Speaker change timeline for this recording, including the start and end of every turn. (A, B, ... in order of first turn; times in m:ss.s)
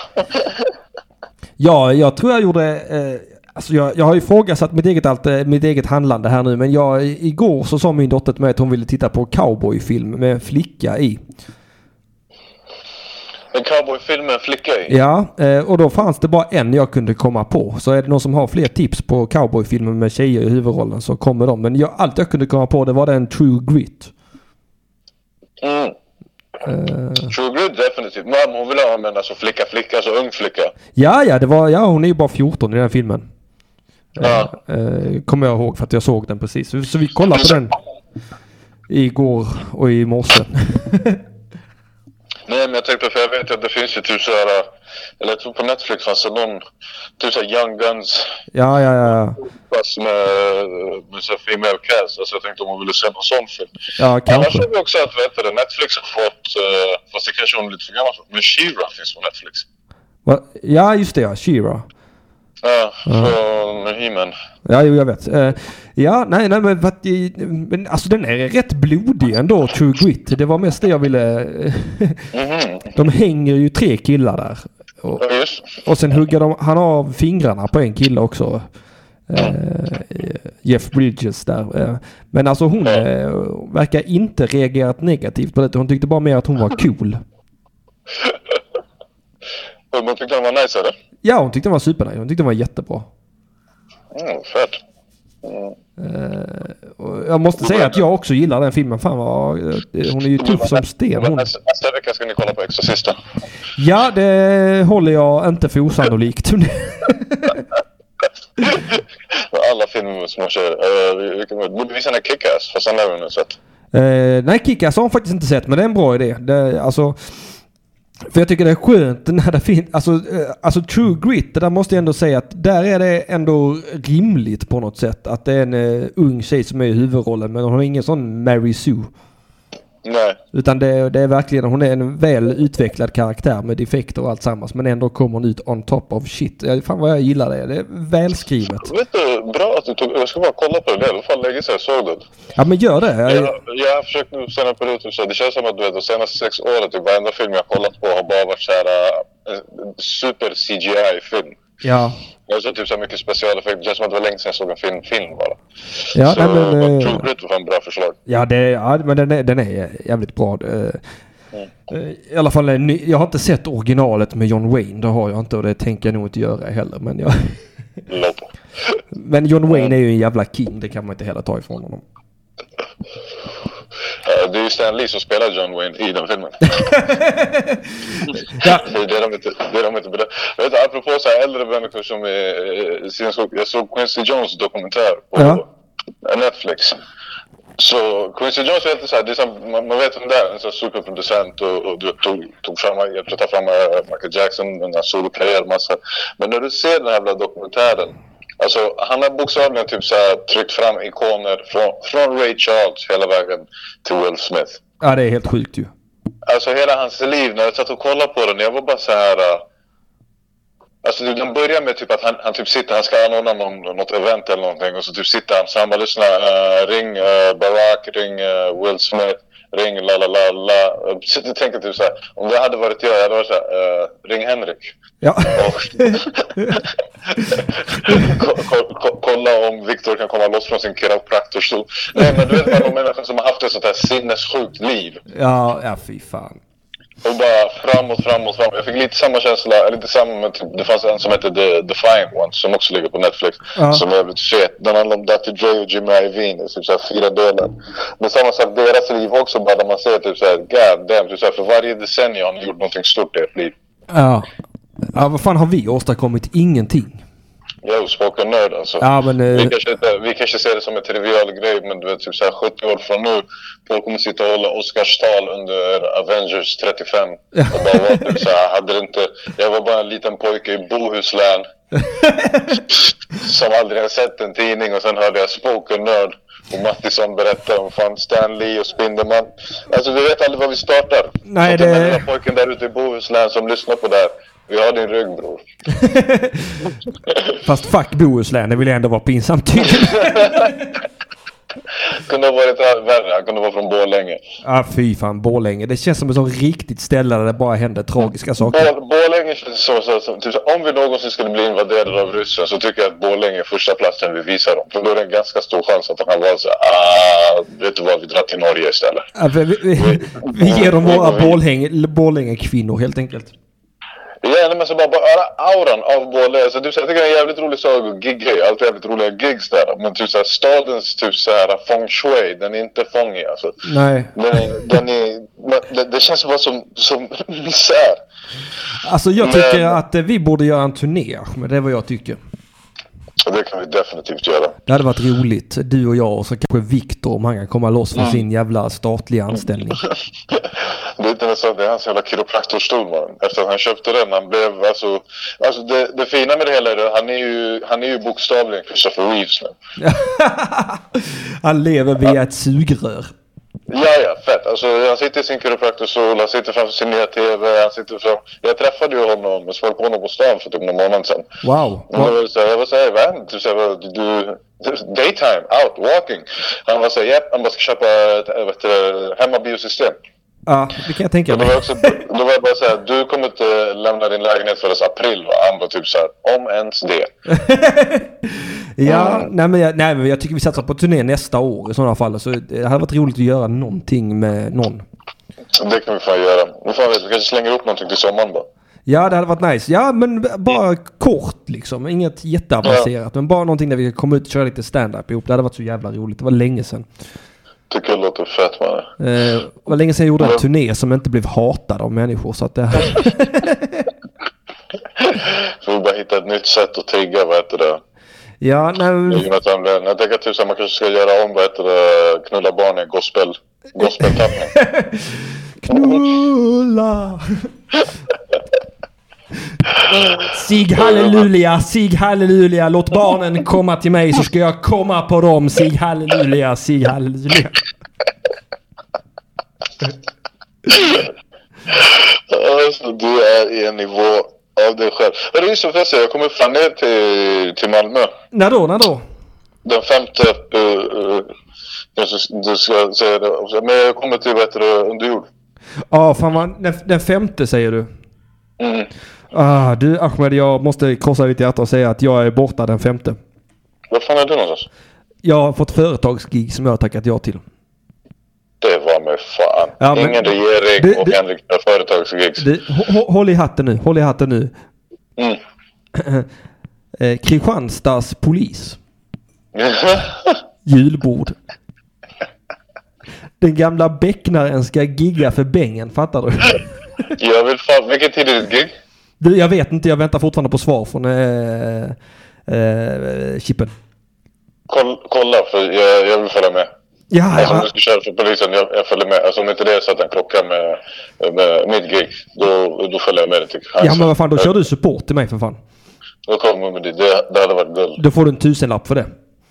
0:01.6-0:11.2 A
0:13.5-0:14.9 B
0:14.9-0:24.1 A
0:25.6-0:26.0 B
0:26.6-0:27.3 A
0:27.3-0:30.7 B
0:31.0-0:33.3 A
0:34.2-0:37.8 A
0:34.2-0:34.5 B
0:38.9-0:41.2 A
0:42.5-0:44.7 B
0:45.2-0:46.6 B
0:47.2-0:48.4 B
0:48.5-0:49.4 A
0:49.4-0:53.7 B
0:54.0-0:54.7 A
0:54.3-0:59.7 B
1:00.2-1:01.9 A
1:02.6-1:04.3 B
1:03.1-1:03.4 A
1:04.7-1:12.3 A
1:12.3-1:13.0 B
1:13.0-1:15.2 A
1:15.2-1:15.7 B
1:15.8-1:18.7 A
1:19.3-1:27.2 A
1:29.9-1:31.0 B
1:31.2-1:33.1 A
1:34.1-1:34.8 B
1:35.4-1:35.8 B
1:36.0-1:41.5 A
1:37.6-1:38.0 B
1:40.4-1:43.2 B
1:43.8-1:47.7 A
1:49.5-1:53.6 B
1:53.9-1:57.6 A
1:58.3-2:09.1 A
2:10.0-2:10.4 B
2:10.5-2:18.9 A
2:18.8-2:22.3 B
2:22.6-2:23.6 A
2:23.3-2:31.6 B
2:31.8-2:32.2 A
2:32.5-2:38.2 B
2:36.1-2:37.2 A
2:38.3-2:41.0 A
2:41.9-2:47.6 A
2:48.1-2:48.5 B
2:49.1-2:52.0 A
2:49.7-2:49.9 B
2:54.2-2:56.8 B
2:56.8-2:58.9 A
2:58.6-3:05.7 B
3:05.4-3:05.6 A
3:06.2-3:07.0 B
3:07.8-3:24.8 B
3:25.0-3:25.9 A
3:26.5-3:29.6 B
3:31.0-3:46.9 B
3:45.2-3:46.8 A
3:47.8-3:55.2 B
3:55.3-3:56.6 A
3:57.2-4:13.7 B
4:03.8-4:04.0 A
4:14.1-4:14.5 A
4:15.2-4:17.2 A
4:17.8-4:31.7 B
4:19.0-4:19.7 A
4:27.5-4:28.4 A
4:32.0-4:32.8 A
4:33.4-4:45.6 B
4:41.5-4:42.2 A
4:45.9-4:46.9 A
4:47.6-4:50.9 A
4:50.0-4:50.5 B
4:52.2-4:54.4 B
4:54.6-4:58.8 A
4:58.6-5:09.3 B
5:09.4-5:13.5 A
5:10.0-5:11.6 B
5:14.4-5:23.8 B
5:23.8-5:24.4 A
5:24.4-5:28.2 B
5:29.0-5:32.4 A
5:29.4-5:30.0 B
5:33.4-5:34.8 B
5:34.9-5:40.0 A
5:38.2-5:38.4 B
5:40.5-5:49.8 B
5:50.0-5:53.3 A
5:53.9-6:01.5 B
6:01.6-6:02.4 A
6:02.1-6:10.2 B
6:10.7-6:11.8 A
6:11.5-6:17.3 B
6:17.5-6:25.0 A
6:19.0-6:19.5 B
6:25.7-6:28.7 B
6:29.1-6:37.1 A
6:37.9-6:39.1 B
6:39.2-6:44.1 A
6:45.2-6:48.0 B
6:48.6-6:49.5 A
6:49.3-6:54.7 B
6:54.3-6:57.7 A
6:55.9-6:56.2 B
7:00.0-7:07.8 A
7:01.0-7:01.4 B
7:10.9-7:11.3 B
7:12.0-7:18.3 B
7:18.5-7:19.2 A
7:19.8-7:21.5 B
7:22.2-7:25.5 B
7:26.1-7:28.1 A
7:28.8-7:29.1 B
7:29.5-7:33.4 A
7:34.1-7:34.9 B
7:35.4-7:37.6 A
7:38.8-7:42.7 B
7:40.0-7:40.5 A
7:41.0-7:41.4 A
7:42.6-7:44.7 A
7:46.2-7:46.5 A
7:47.2-7:49.0 A
7:49.7-7:50.6 B
7:50.9-7:51.6 A
7:53.6-7:57.3 A
7:57.4-7:58.9 B
7:59.4-8:02.2 A
8:02.7-8:03.9 A
8:04.9-8:06.9 B
8:07.3-8:07.9 A
8:07.6-8:14.7 B
8:14.0-8:15.8 A
8:16.5-8:18.2 B
8:18.2-8:19.3 A